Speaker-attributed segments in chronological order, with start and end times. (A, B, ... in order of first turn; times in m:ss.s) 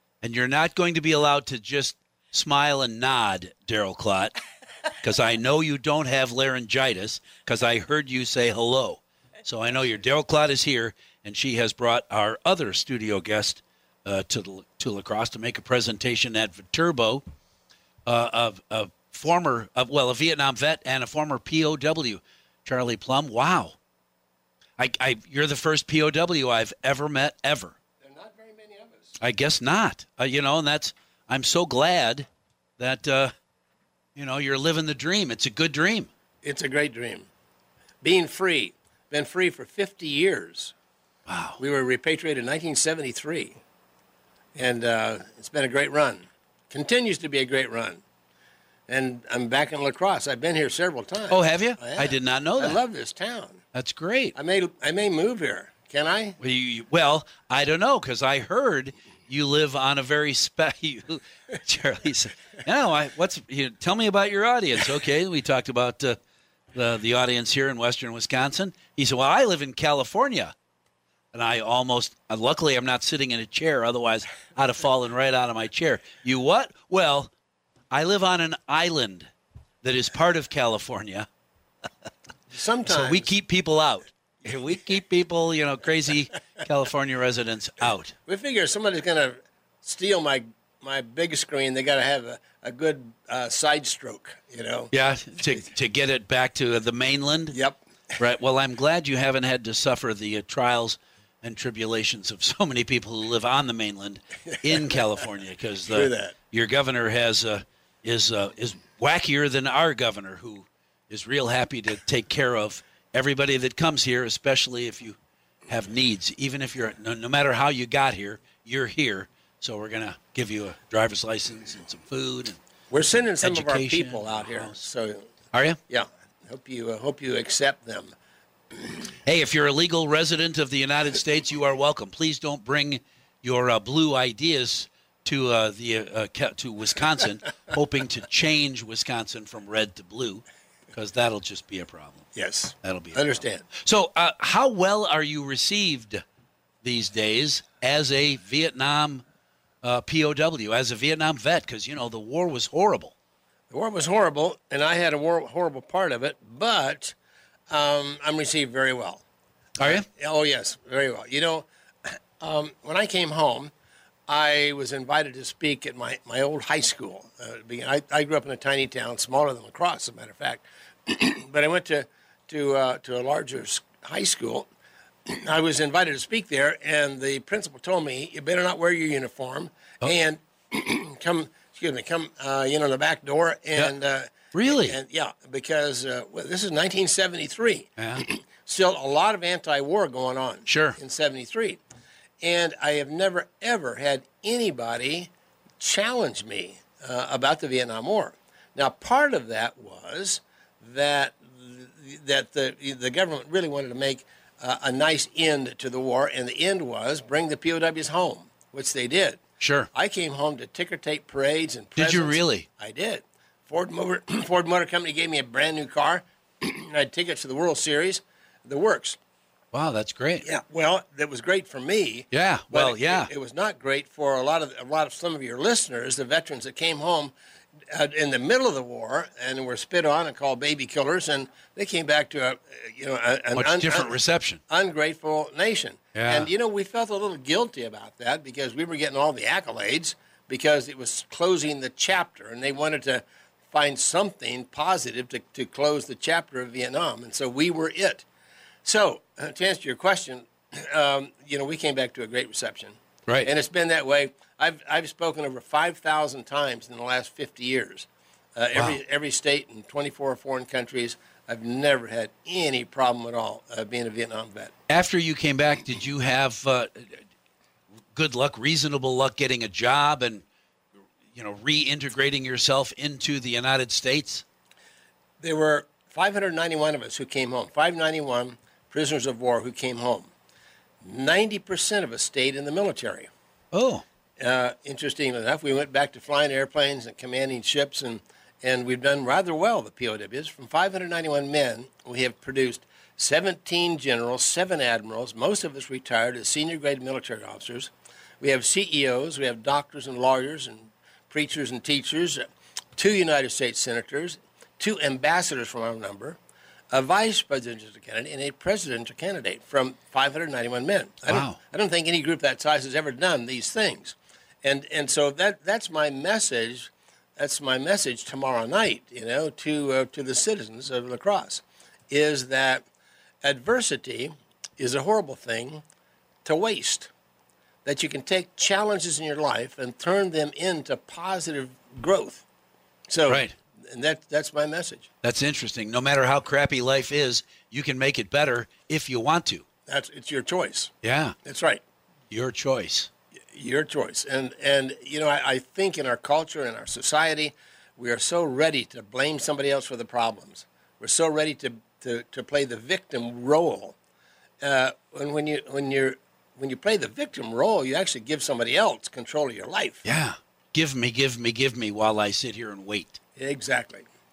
0:00.2-0:04.4 A
0:05.0-0:17.2 A
0:18.0-0:23.8 A
0:24.8-0:27.8 A
0:28.0-0:29.2 B
0:29.2-0:33.3 A
0:34.2-0:36.1 A
0:36.4-0:37.3 B
0:38.0-0:40.7 B
0:41.3-0:41.6 A
0:41.6-0:43.6 B
0:44.5-0:48.0 B
0:48.9-0:53.6 B
0:51.3-0:52.8 A
0:53.7-0:54.3 A
0:54.4-0:56.4 B
0:56.4-1:06.2 A
1:06.7-1:10.5 A
1:11.3-1:17.3 A
1:17.9-1:19.3 A
1:19.8-1:21.3 A
1:22.5-1:23.3 B
1:22.8-1:28.1 A
1:28.3-1:34.9 B
1:34.9-1:37.6 A
1:37.5-1:38.2 B
1:38.2-2:02.6 A
1:44.5-1:45.0 B
1:45.9-1:46.3 B
2:02.9-2:05.2 B
2:03.1-2:04.8 A
2:05.5-2:05.8 A
2:05.9-2:08.1 B
2:09.2-2:22.3 A
2:22.3-2:23.6 B
2:22.8-2:26.2 A
2:26.8-2:29.2 A
2:29.8-2:33.1 A
2:33.7-2:37.2 B
2:37.7-2:39.2 B
2:39.8-2:40.0 A
2:39.8-2:43.7 B
2:44.3-2:54.7 B
2:55.2-3:11.8 B
3:04.5-3:05.0 A
3:08.0-3:08.2 A
3:10.6-3:11.0 A
3:12.4-3:29.4 B
3:29.6-3:29.9 A
3:29.9-3:39.2 B
3:32.0-3:32.6 A
3:39.7-3:40.4 A
3:40.4-3:47.3 B
3:42.3-3:43.3 A
3:47.9-4:08.2 B
3:53.6-3:54.6 A
3:56.1-3:56.5 A
4:08.8-4:24.7 B
4:24.9-4:27.2 A
4:28.1-4:30.4 A
4:31.3-4:34.4 A
4:35.4-4:40.3 B
4:41.0-4:43.3 B
4:43.7-4:44.0 A
4:44.4-5:02.4 B
5:03.0-5:06.4 B
5:06.9-5:22.8 B
5:11.3-5:11.6 A
5:23.4-5:25.8 B
5:26.4-5:27.1 B
5:27.8-5:32.4 B
5:33.1-5:35.1 B
5:33.3-5:33.5 A
5:35.2-5:39.6 A
5:39.9-5:40.9 B
5:41.0-5:41.4 A
5:41.4-5:41.8 B
5:42.3-5:43.1 A
5:43.5-5:54.0 B
5:54.6-6:00.0 B
6:00.0-6:03.2 A
6:03.4-6:04.0 B